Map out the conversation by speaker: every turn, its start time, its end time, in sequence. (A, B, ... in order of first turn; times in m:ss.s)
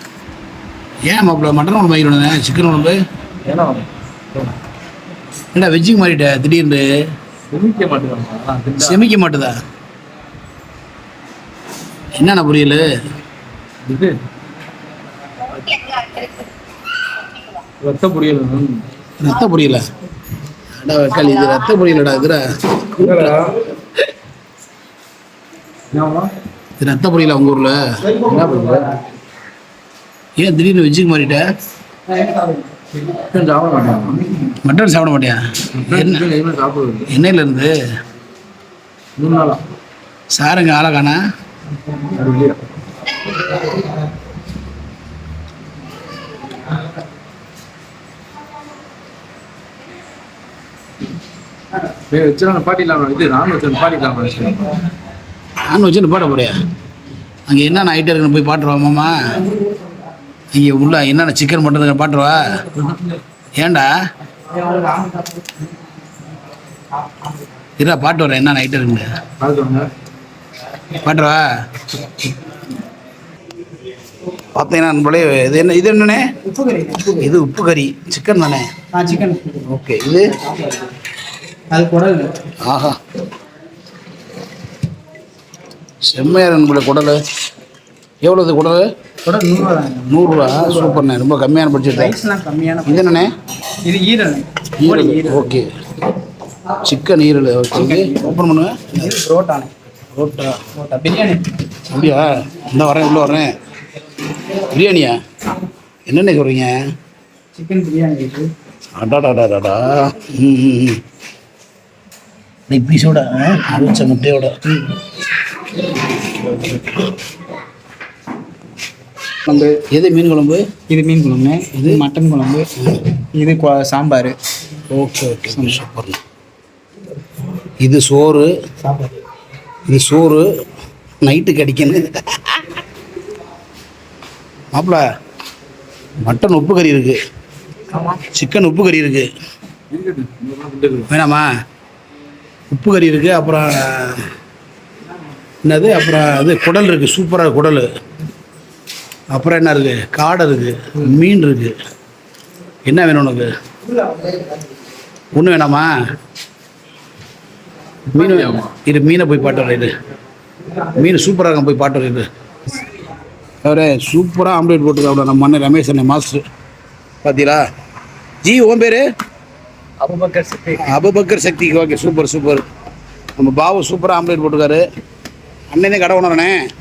0:01.0-0:03.0 A
0:03.4-0:03.9 B
0:05.5-0:06.9 A
0:07.5-0:09.1 B
0:08.8-0:09.6 A
0:12.1-0:12.9 A
0:13.9-0:14.2 B
0:17.8-0:18.9 B
0:19.2-0:19.8 A
0:20.8-0:23.4 A
0:23.0-0:23.6 B
0:25.9-0:26.3 B
0:26.8-0:27.8 A
0:28.2-0:28.9 B
0:30.4-0:31.5 A
0:32.1-0:32.6 C
0:33.0-0:34.3 B
0:34.6-0:36.3 A
0:35.8-0:37.1 B
0:37.1-0:37.7 A
0:39.2-0:39.6 B
0:40.3-0:41.2 A
0:42.1-0:42.6 B
0:52.1-0:54.7 B
0:55.7-0:56.6 A
0:57.5-0:59.2 A
1:00.5-1:02.6 A
1:03.6-1:03.9 A
1:04.6-1:05.3 C
1:07.8-1:09.1 A
1:09.4-1:09.9 B
1:11.0-1:11.4 A
1:14.5-1:16.3 A
1:16.4-1:17.3 C
1:17.2-1:18.7 A
1:18.9-1:19.7 C
1:19.7-1:20.4 A
1:20.5-1:20.8 C
1:21.7-1:22.4 C
1:22.6-1:23.0 A
1:26.0-1:27.2 A
1:28.2-1:28.9 A
1:29.2-1:31.0 C
1:30.1-1:32.2 A
1:32.0-1:33.3 C
1:32.9-1:33.3 A
1:33.8-1:35.5 C
1:34.8-1:35.7 A
1:36.8-1:39.2 A
1:37.7-1:38.3 C
1:38.9-1:39.7 C
1:40.2-1:40.6 A
1:40.7-1:41.5 C
1:41.9-1:43.5 A
1:44.6-1:45.2 A
1:46.1-1:46.8 A
1:47.5-1:48.5 C
1:49.0-1:51.0 A
1:52.7-1:54.6 A
1:59.5-1:59.8 C
1:59.8-2:00.6 A
2:00.9-2:02.7 C
2:01.8-2:02.0 A
2:03.3-2:04.4 C
2:04.9-2:06.2 A
2:05.6-2:05.8 C
2:07.8-2:08.5 A
2:08.8-2:09.1 C
2:09.9-2:10.5 A
2:11.2-2:12.6 A
2:14.7-2:15.0 A
2:16.2-2:17.2 A
2:18.3-2:19.3 A
2:19.9-2:21.1 B
2:21.1-2:21.5 A
2:22.7-2:24.3 A
2:25.6-2:27.9 A
2:29.3-2:31.8 A
2:32.9-2:33.5 A
2:35.4-2:35.9 A
2:38.1-2:39.9 A
2:38.2-2:38.7 B
2:40.9-2:42.3 A
2:43.6-2:46.4 A
2:47.2-2:47.6 A
2:48.4-2:49.0 A
2:50.0-2:50.9 C
2:50.8-2:52.6 A
2:53.4-2:54.8 A
2:55.7-2:56.6 A